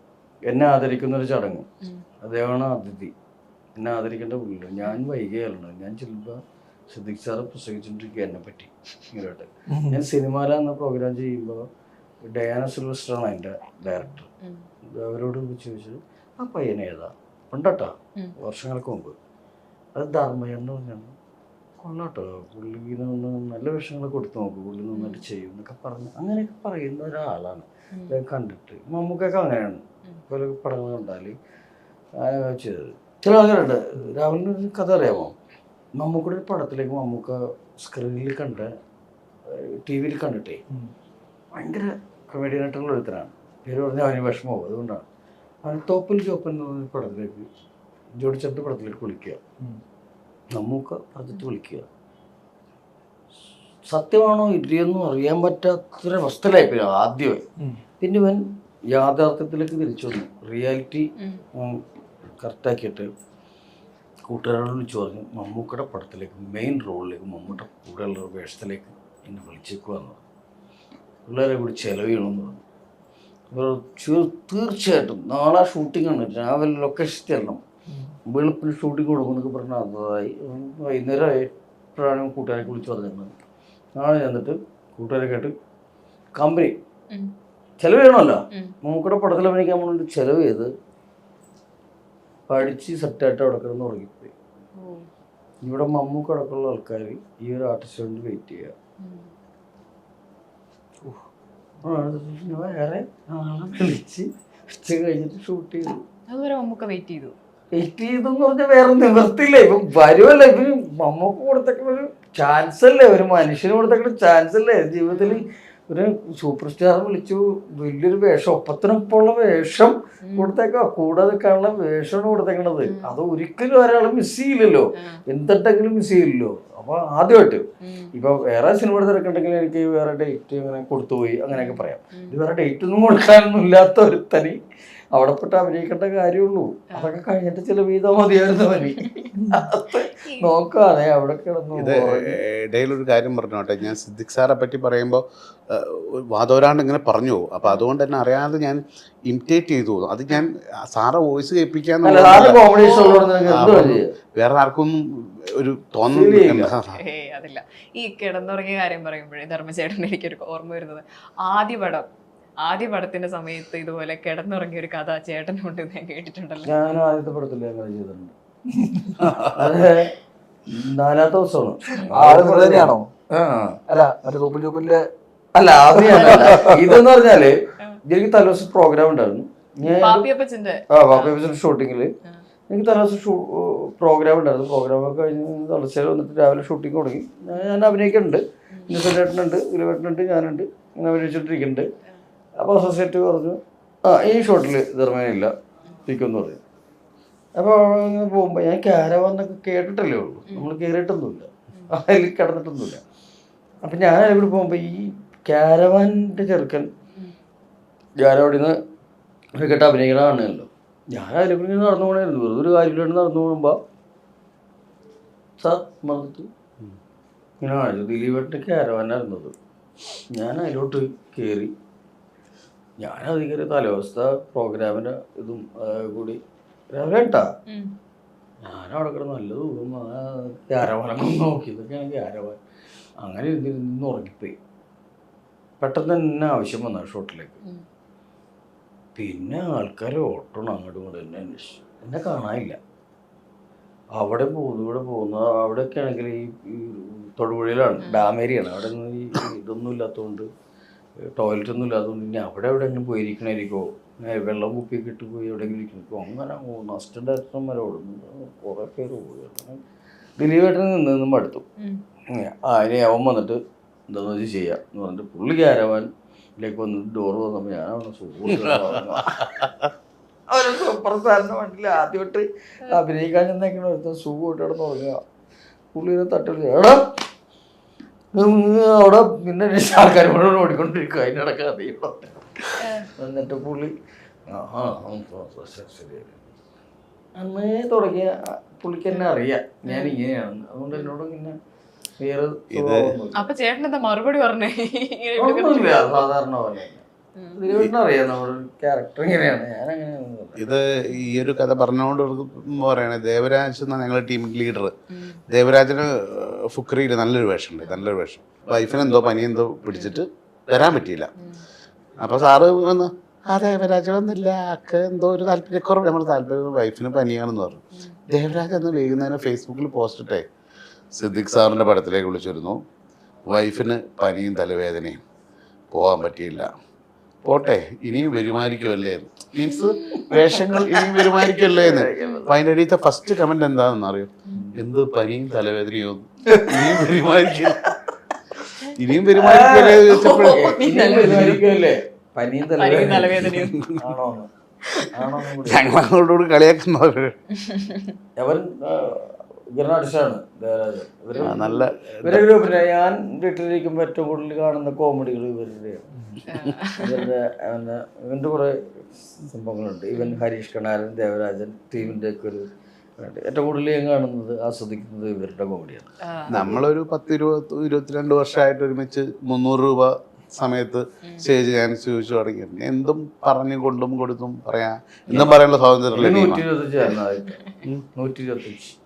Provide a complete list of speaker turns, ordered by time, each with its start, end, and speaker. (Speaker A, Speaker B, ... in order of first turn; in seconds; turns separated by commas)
Speaker A: 0.4-1.7, Speaker A: 2.2-3.1, Speaker A: 3.8-11.7, Speaker B: 9.7-10.0, Speaker A: 12.2-14.3, Speaker C: 14.4-14.7, Speaker A: 14.8-19.1, Speaker A: 19.9-21.1, Speaker A: 21.8-31.4, Speaker C: 24.9-25.2, Speaker A: 32.1-35.4, Speaker A: 36.0-38.7, Speaker A: 39.5-40.6, Speaker A: 41.5-45.0, Speaker A: 45.6-47.5, Speaker A: 48.1-49.4, Speaker A: 50.5-51.9, Speaker A: 53.9-57.5, Speaker A: 58.0-61.8, Speaker C: 61.2-61.4, Speaker A: 62.4-63.1, Speaker A: 64.2-70.2, Speaker A: 71.2-72.6, Speaker A: 73.5-77.6, Speaker A: 78.3-83.3, Speaker A: 83.9-85.5, Speaker A: 86.3-86.8, Speaker A: 87.8-90.7, Speaker A: 92.5-94.3, Speaker C: 94.8-95.1, Speaker A: 95.6-98.7, Speaker C: 99.0-99.3, Speaker A: 101.8-106.0, Speaker C: 106.3-107.3, Speaker A: 107.7-134.6, Speaker C: 115.1-115.5, Speaker C: 120.2-120.5, Speaker C: 122.8-123.2, Speaker C: 125.0-125.2, Speaker C: 127.8-128.1, Speaker C: 131.5-132.4, Speaker A: 135.1-142.4, Speaker C: 136.9-137.2, Speaker C: 138.9-139.2, Speaker B: 139.3-139.7, Speaker C: 140.2-140.6, Speaker D: 141.7-152.6, Speaker A: 152.0-154.1, Speaker C: 152.7-153.3, Speaker D: 153.4-157.0, Speaker A: 156.1-156.7, Speaker C: 156.9-162.1, Speaker C: 162.6-166.7, Speaker A: 166.6-168.3, Speaker A: 169.0-170.1, Speaker A: 170.7-173.8, Speaker B: 172.1-173.1, Speaker B: 173.9-175.1, Speaker A: 175.5-180.3, Speaker B: 176.1-176.9, Speaker C: 176.2-176.5, Speaker C: 179.8-181.4, Speaker A: 180.9-182.1, Speaker A: 182.7-191.9, Speaker C: 187.5-187.9, Speaker C: 188.7-189.0, Speaker A: 192.6-195.5, Speaker A: 196.1-196.6, Speaker A: 197.6-203.0, Speaker A: 203.8-206.9, Speaker A: 208.2-208.8, Speaker A: 209.6-213.8, Speaker A: 215.6-216.5, Speaker A: 217.6-219.5, Speaker A: 220.3-221.7, Speaker A: 223.0-226.4, Speaker A: 226.9-227.5, Speaker C: 227.7-227.9, Speaker A: 228.6-232.6, Speaker A: 233.2-234.6, Speaker A: 235.8-237.6, Speaker A: 239.2-242.8, Speaker A: 244.2-250.5, Speaker C: 248.0-248.3, Speaker A: 251.3-259.8, Speaker A: 260.4-261.6, Speaker A: 262.3-269.5, Speaker A: 270.5-275.2, Speaker A: 275.9-277.2, Speaker A: 278.3-283.9, Speaker C: 282.8-283.1, Speaker A: 284.5-286.4, Speaker A: 287.4-291.6, Speaker C: 289.9-290.2, Speaker A: 292.2-293.4, Speaker D: 292.7-293.1, Speaker C: 293.3-296.2, Speaker A: 295.4-297.0, Speaker C: 297.4-297.6, Speaker A: 297.6-300.8, Speaker D: 300.6-304.9, Speaker C: 305.1-305.4, Speaker D: 305.5-311.3, Speaker C: 311.4-311.6, Speaker D: 312.2-320.4, Speaker D: 321.1-322.8, Speaker D: 323.4-325.2, Speaker D: 325.9-326.7, Speaker D: 327.4-337.9, Speaker A: 330.8-332.5, Speaker C: 332.2-332.4, Speaker B: 336.7-337.0, Speaker D: 338.9-340.7, Speaker A: 339.3-344.5, Speaker C: 340.1-341.6, Speaker C: 342.8-343.8, Speaker D: 342.9-344.1, Speaker A: 345.1-345.9, Speaker D: 345.6-347.3, Speaker C: 347.6-348.1, Speaker A: 348.4-356.1, Speaker D: 351.4-352.5, Speaker C: 356.5-357.2, Speaker A: 356.9-362.7, Speaker A: 363.2-366.1, Speaker C: 366.2-366.8, Speaker D: 366.5-376.6, Speaker A: 376.1-378.9